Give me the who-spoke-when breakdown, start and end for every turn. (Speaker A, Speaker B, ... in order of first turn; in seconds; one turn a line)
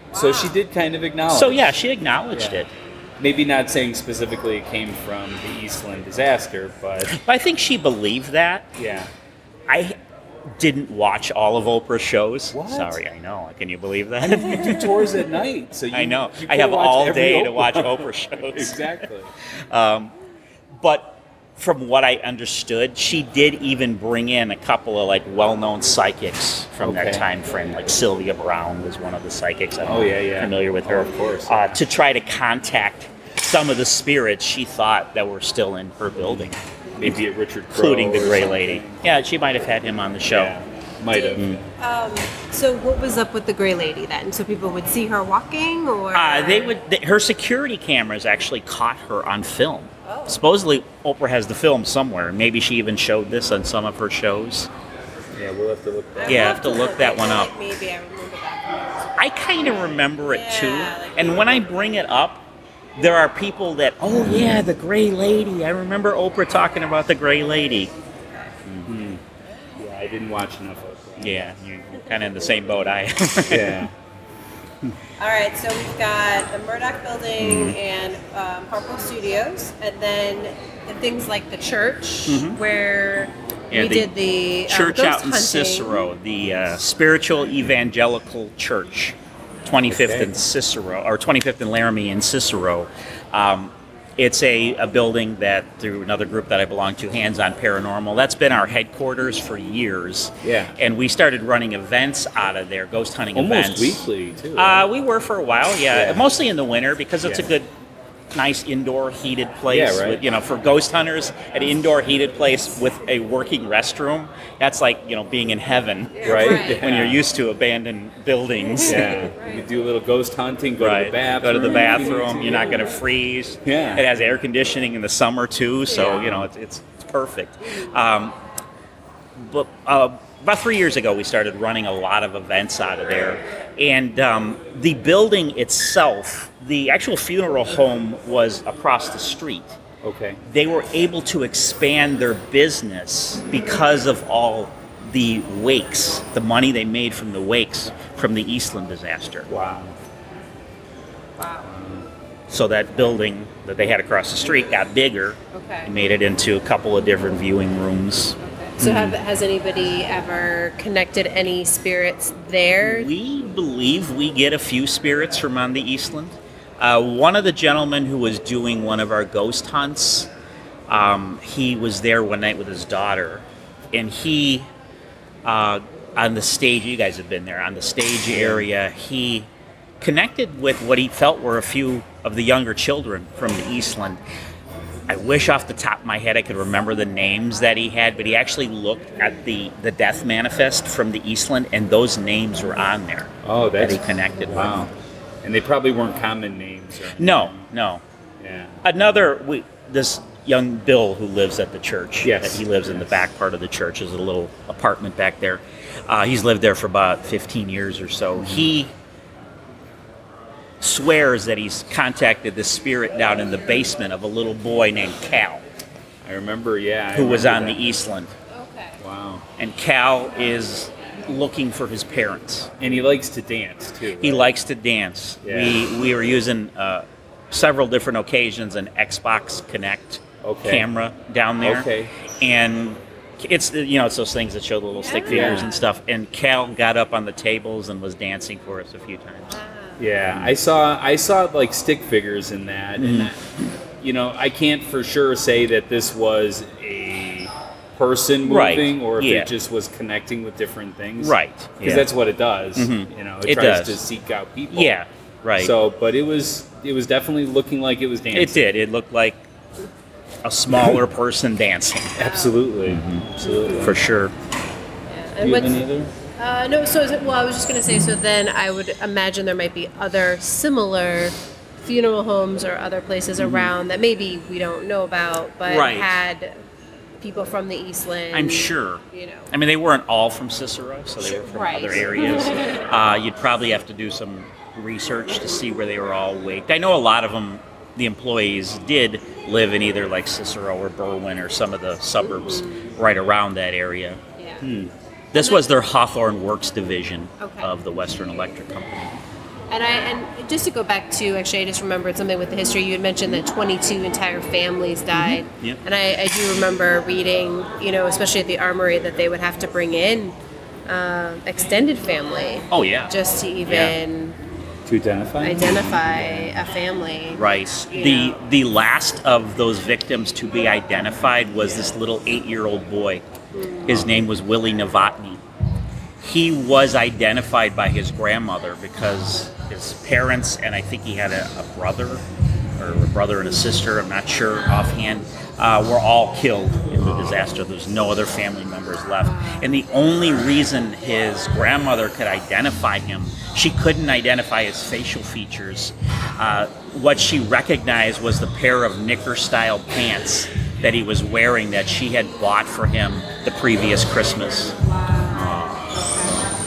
Speaker A: 0.1-1.7
Speaker B: 0.1-0.6
Speaker C: 1.3-2.7
Speaker A: 2.3-7.2
Speaker C: 7.1-8.7
Speaker A: 8.8-9.1
Speaker C: 9.7-9.9
Speaker C: 10.6-15.3
Speaker A: 12.5-13.0
Speaker A: 14.2-19.3
Speaker C: 15.9-19.0
Speaker C: 19.7-20.1
Speaker C: 20.8-40.5
Speaker A: 26.8-27.3
Speaker A: 29.8-31.8
Speaker A: 36.2-39.0
Speaker A: 40.3-41.6
Speaker B: 41.1-46.8
Speaker C: 41.4-41.6
Speaker C: 46.1-54.7
Speaker B: 50.0-50.4
Speaker A: 55.3-56.6
Speaker B: 56.1-59.1
Speaker C: 56.3-57.5
Speaker C: 59.2-62.4
Speaker B: 60.3-61.7
Speaker C: 63.0-67.9
Speaker A: 68.8-69.2
Speaker A: 69.8-71.5
Speaker C: 71.2-73.9
Speaker A: 73.5-73.9
Speaker B: 75.2-86.0
Speaker C: 77.4-77.8
Speaker C: 82.3-82.6
Speaker C: 83.7-84.1
Speaker C: 84.7-107.7
Speaker A: 89.9-90.3
Speaker A: 100.4-100.8
Speaker A: 103.3-104.9
Speaker A: 105.9-106.3
Speaker A: 107.2-107.5
Speaker C: 108.3-119.3
Speaker A: 109.7-110.2
Speaker B: 116.2-116.8
Speaker A: 116.2-117.2
Speaker A: 118.8-122.9
Speaker B: 118.9-119.6
Speaker C: 120.8-128.3
Speaker A: 123.6-124.1
Speaker A: 126.0-126.5
Speaker C: 129.4-139.8
Speaker A: 140.0-140.4
Speaker C: 140.4-149.5
Speaker A: 149.5-149.9
Speaker B: 151.4-151.7
Speaker A: 151.6-152.1
Speaker C: 152.5-159.1
Speaker B: 155.5-155.9
Speaker B: 158.4-163.1
Speaker A: 158.8-159.1
Speaker C: 162.8-170.3
Speaker C: 170.9-174.7
Speaker C: 175.4-179.5
Speaker A: 178.3-178.7
Speaker C: 180.0-184.2
Speaker C: 185.1-194.9
Speaker A: 193.4-194.9
Speaker A: 195.4-197.7
Speaker C: 197.2-198.0
Speaker A: 198.4-198.8
Speaker C: 198.8-208.9
Speaker A: 202.2-203.2
Speaker A: 208.4-208.7
Speaker C: 210.8-215.6
Speaker A: 216.2-217.8
Speaker C: 217.1-218.3
Speaker B: 218.6-218.9
Speaker A: 219.0-219.4
Speaker C: 219.6-222.7
Speaker A: 222.8-224.5
Speaker C: 224.2-231.9
Speaker A: 225.4-225.9
Speaker A: 230.4-230.9
Speaker A: 231.6-232.1
Speaker C: 232.4-239.6
Speaker B: 235.0-235.8
Speaker A: 235.3-235.7
Speaker B: 239.5-240.0
Speaker A: 240.0-243.4
Speaker C: 243.0-243.7
Speaker A: 244.0-255.0
Speaker C: 248.4-249.5
Speaker C: 251.2-252.1
Speaker C: 252.8-254.0
Speaker C: 254.7-255.7
Speaker A: 255.6-258.6
Speaker C: 258.3-259.4
Speaker C: 260.4-262.2
Speaker A: 260.7-261.0
Speaker A: 262.2-264.1
Speaker B: 262.2-262.6
Speaker C: 262.8-263.2
Speaker B: 263.4-263.9
Speaker C: 263.8-264.3
Speaker B: 265.1-265.8
Speaker A: 265.4-266.1
Speaker B: 266.4-276.6
Speaker C: 273.4-273.7
Speaker C: 275.6-276.1
Speaker B: 277.2-279.5
Speaker C: 278.3-294.2
Speaker B: 281.2-282.8
Speaker B: 292.2-292.9
Speaker B: 294.4-294.6
Speaker A: 294.6-294.9
Speaker C: 295.3-299.1
Speaker B: 295.3-295.6
Speaker B: 297.4-297.7
Speaker B: 299.7-310.4
Speaker C: 305.1-305.8
Speaker B: 310.9-314.4
Speaker C: 312.7-313.1
Speaker C: 313.7-314.0
Speaker A: 314.9-316.6
Speaker B: 315.4-318.4
Speaker C: 317.3-323.2
Speaker B: 323.5-324.1
Speaker C: 323.9-325.4
Speaker C: 326.2-332.2
Speaker C: 332.8-354.7
Speaker B: 339.2-339.7
Speaker B: 354.9-356.3
Speaker C: 355.4-355.8